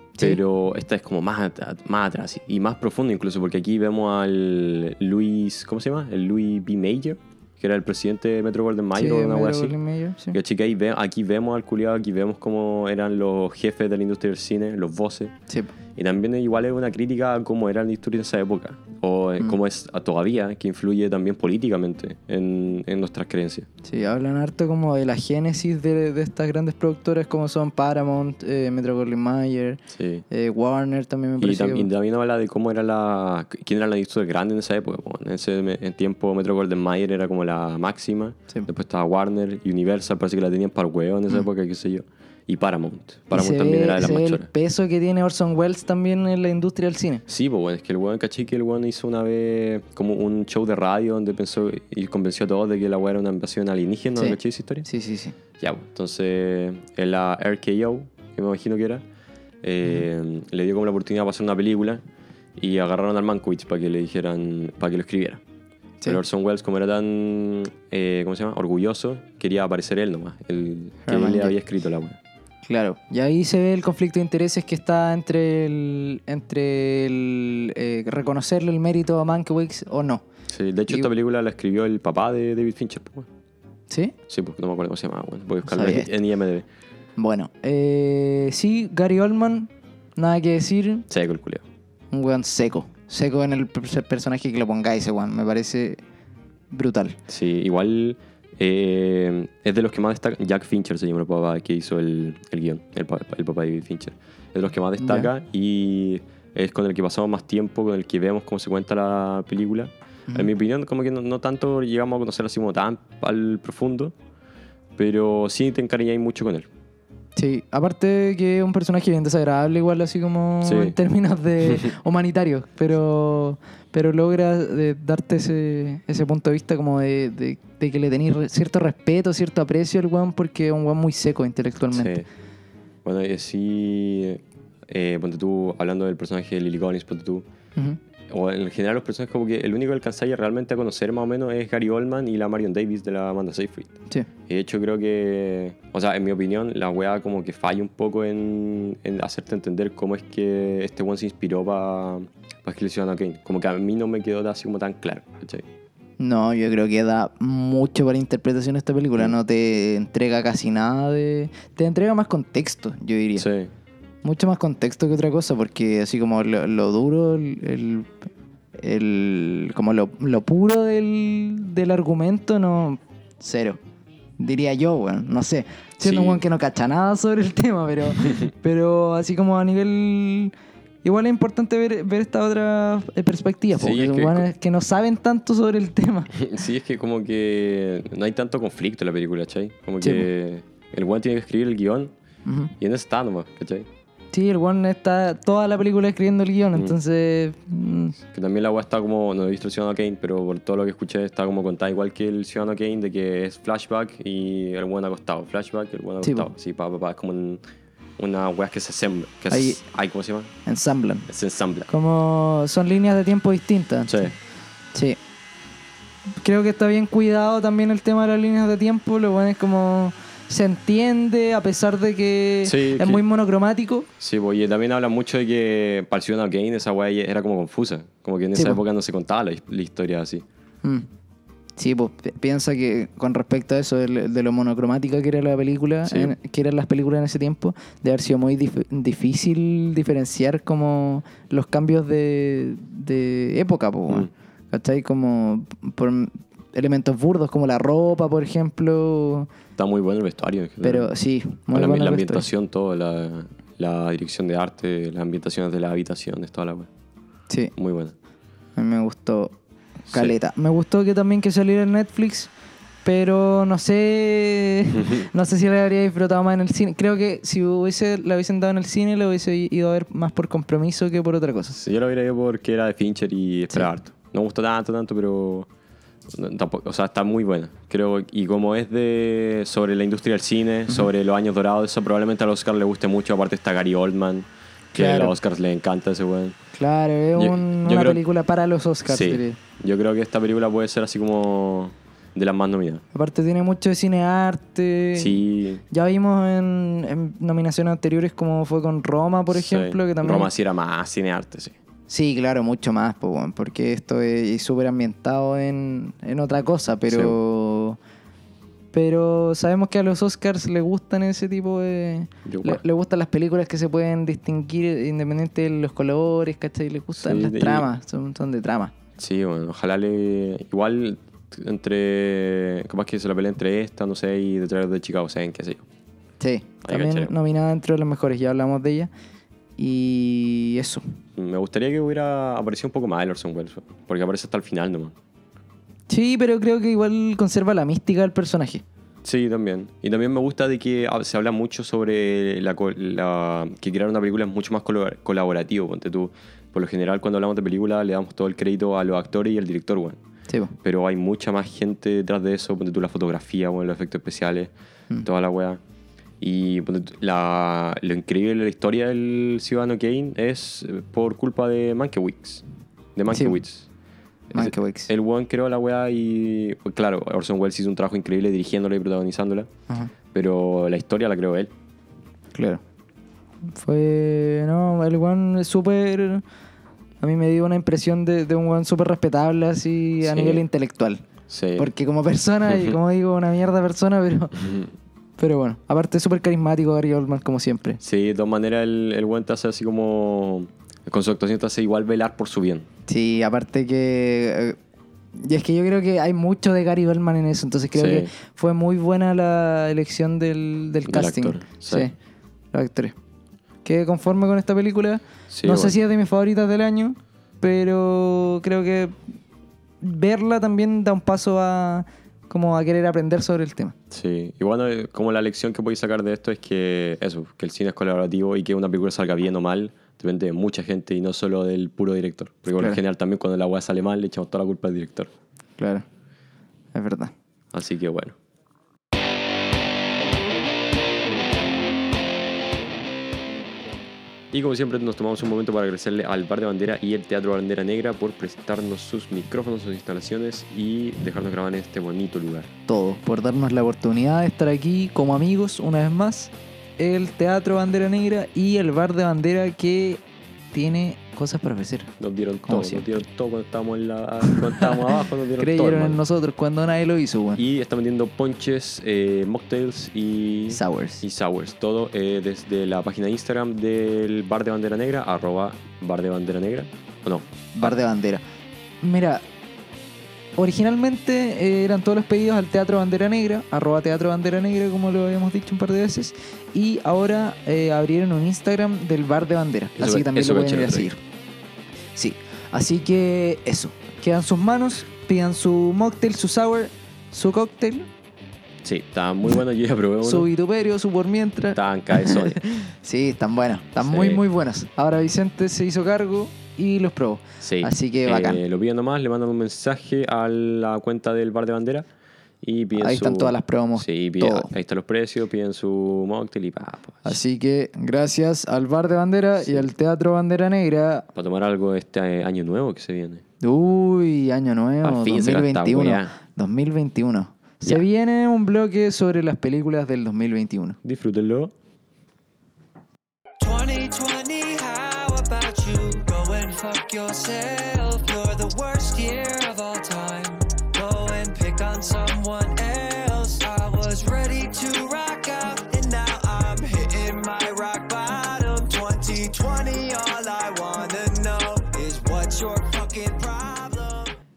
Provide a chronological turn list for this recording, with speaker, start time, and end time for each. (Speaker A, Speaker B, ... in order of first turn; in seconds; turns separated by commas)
Speaker A: 0.2-9.8, Speaker B: 8.9-10.4, Speaker A: 10.3-15.3, Speaker A: 15.9-23.7, Speaker B: 23.8-31.9, Speaker A: 29.9-30.2, Speaker A: 31.4-44.5, Speaker B: 43.3-47.2, Speaker A: 47.3-54.9, Speaker B: 54.2-55.3, Speaker A: 55.6-59.0, Speaker A: 59.6-62.0, Speaker A: 62.6-65.4, Speaker A: 66.0-72.2, Speaker B: 71.0-71.5, Speaker B: 72.6-80.2, Speaker A: 80.5-83.3, Speaker B: 83.9-84.1, Speaker A: 84.3-86.7, Speaker B: 85.7-86.1, Speaker B: 87.2-91.0, Speaker A: 91.1-91.6, Speaker B: 92.1-96.0, Speaker B: 96.7-97.2, Speaker A: 97.3-114.1, Speaker B: 105.0-105.3, Speaker A: 115.0-116.7, Speaker B: 117.3-132.2, Speaker A: 120.6-121.0, Speaker A: 131.9-132.2, Speaker A: 133.0-137.4, Speaker A: 138.3-155.6, Speaker B: 156.2-163.4, Speaker A: 163.4-163.7, Speaker B: 164.2-168.1, Speaker B: 168.8-173.8, Speaker B: 174.4-186.3, Speaker A: 176.0-176.4, Speaker A: 183.7-184.5, Speaker A: 186.3-192.1, Speaker B: 190.0-190.3, Speaker B: 192.4-192.7, Speaker A: 192.8-193.9, Speaker B: 194.3-198.2, Speaker A: 198.3-207.6, Speaker B: 206.2-206.5, Speaker A: 208.2-210.5, Speaker B: 209.5-209.8, Speaker B: 210.7-211.3, Speaker A: 211.3-211.9, Speaker B: 211.9-214.3, Speaker A: 214.1-214.3, Speaker B: 216.4-224.1, Speaker A: 222.6-223.2, Speaker A: 224.2-230.4, Speaker B: 228.5-228.8, Speaker B: 231.8-249.5, Speaker A: 236.0-236.3, Speaker A: 249.8-251.1, Speaker B: 250.8-252.5, Speaker A: 251.7-256.9, Speaker A: 257.8-258.1, Speaker B: 258.8-259.5, Speaker B: 260.1-262.5, Speaker B: 263.0-271.8, Speaker A: 264.9-265.2, Speaker A: 271.7-275.7, Speaker A: 276.3-286.6, Speaker B: 284.9-285.3, Speaker B: 286.7-289.6, Speaker A: 287.4-288.2, Speaker A: 289.1-293.0, Speaker B: 293.1-300.5, Speaker A: 295.1-295.8, Speaker A: 299.5-301.8, Speaker B: 302.1-308.0, Speaker A: 307.1-307.4, Speaker B: 308.9-318.9, Speaker A: 312.4-312.8, Speaker A: 317.1-317.9, Speaker A: 319.2-325.9, Speaker B: 326.4-329.1, Speaker A: 326.8-327.3, Speaker B: 329.8-331.0, Speaker A: 331.4-335.1, Speaker B: 336.1-338.8, Speaker A: 339.2-350.2, Speaker B: 350.5-350.7, Speaker A: 350.8-354.7, Speaker A: 355.2-355.8, Speaker A: 356.4-363.9, Speaker B: 363.3-363.6, Speaker A: 364.5-369.7, Speaker B: 364.5-365.1, Speaker A: 370.3-371.7, Speaker B: 372.5-372.8, Speaker B: 373.7-376.4, Speaker B: 377.2-381.2, Speaker A: 380.2-380.6, Speaker A: 381.5-381.9, Speaker B: 381.8-384.6, Speaker A: 382.7-383.0, Speaker A: 384.6-384.9, Speaker B: 385.4-388.0, Speaker A: 388.0-392.9, Speaker B: 393.1-394.8, Speaker B: 395.4-402.1, Speaker A: 397.9-398.3, Speaker A: 401.1-402.1, Speaker B: 402.7-403.1, Speaker B: 403.8-409.1, Speaker A: 405.5-405.9, Speaker B: 410.0-413.9, Speaker A: 414.1-425.3, Speaker B: 425.8-426.1, Speaker B: 426.9-427.3, Speaker A: 427.7-428.4, Speaker A: 434.5-442.7, Speaker B: 442.9-452.1, Speaker A: 452.2-456.2, Speaker B: 452.6-453.1, Speaker B: 454.4-454.9, Speaker B: 455.6-457.6, Speaker A: 457.6-468.0, Speaker B: 460.7-461.2, Speaker B: 467.7-468.4, Speaker B: 469.0-469.4, Speaker B: 470.6-481.2, Speaker A: 480.0-481.1, Speaker B: 482.1-488.1, Speaker A: 488.8-490.5, Speaker B: 490.2-498.6, Speaker A: 491.7-492.6, Speaker A: 494.0-494.4, Speaker A: 497.6-502.1, Speaker A: 502.6-507.4, Speaker B: 502.9-504.7, Speaker B: 507.2-511.2, Speaker A: 509.6-509.9, Speaker A: 511.3-513.4, Speaker B: 513.6-521.0, Speaker A: 515.0-516.3, Speaker A: 521.0-521.7, Speaker C: 523.6-544.3